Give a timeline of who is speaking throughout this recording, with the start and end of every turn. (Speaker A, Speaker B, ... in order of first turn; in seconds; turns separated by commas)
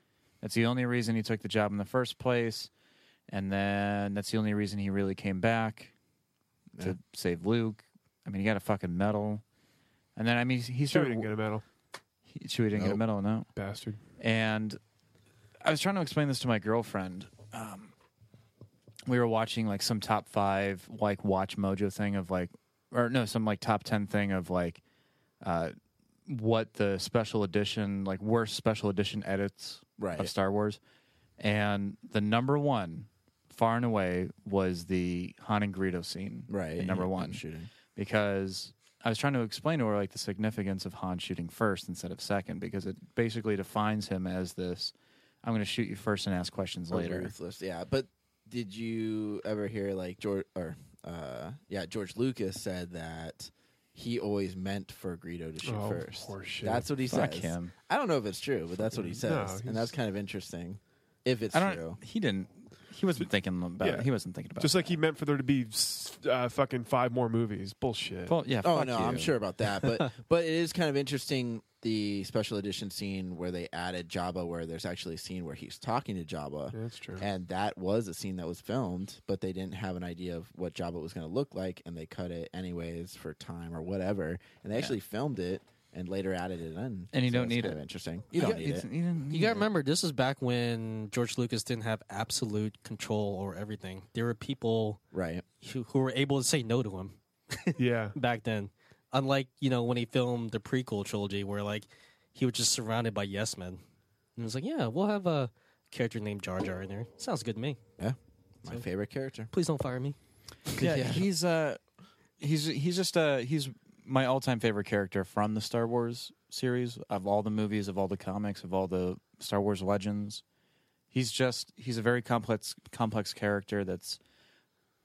Speaker A: 0.4-2.7, Speaker A: 3.3-5.9, Speaker A: 6.8-9.4, Speaker A: 10.2-11.3, Speaker B: 10.9-11.6, Speaker A: 12.3-13.5, Speaker C: 12.8-13.0, Speaker B: 13.6-14.0, Speaker A: 14.2-14.8, Speaker A: 15.6-17.9, Speaker A: 19.1-24.8, Speaker A: 25.4-25.8, Speaker A: 26.3-30.8, Speaker C: 30.0-30.3, Speaker A: 31.4-37.4, Speaker C: 36.5-37.7, Speaker A: 37.9-47.3, Speaker C: 46.9-62.0, Speaker B: 55.6-56.9, Speaker A: 57.1-57.7, Speaker B: 58.9-59.9, Speaker A: 61.5-65.0, Speaker B: 63.8-68.3, Speaker A: 68.3-69.3, Speaker C: 68.6-88.9, Speaker B: 76.7-77.2, Speaker A: 87.1-89.7, Speaker D: 89.3-95.0, Speaker C: 95.1-95.5, Speaker D: 95.6-103.8, Speaker B: 97.8-98.2, Speaker D: 104.4-107.8, Speaker C: 108.0-109.5, Speaker D: 109.5-110.2, Speaker C: 110.7-111.2, Speaker A: 110.8-111.8, Speaker A: 112.4-120.4, Speaker A: 121.1-124.2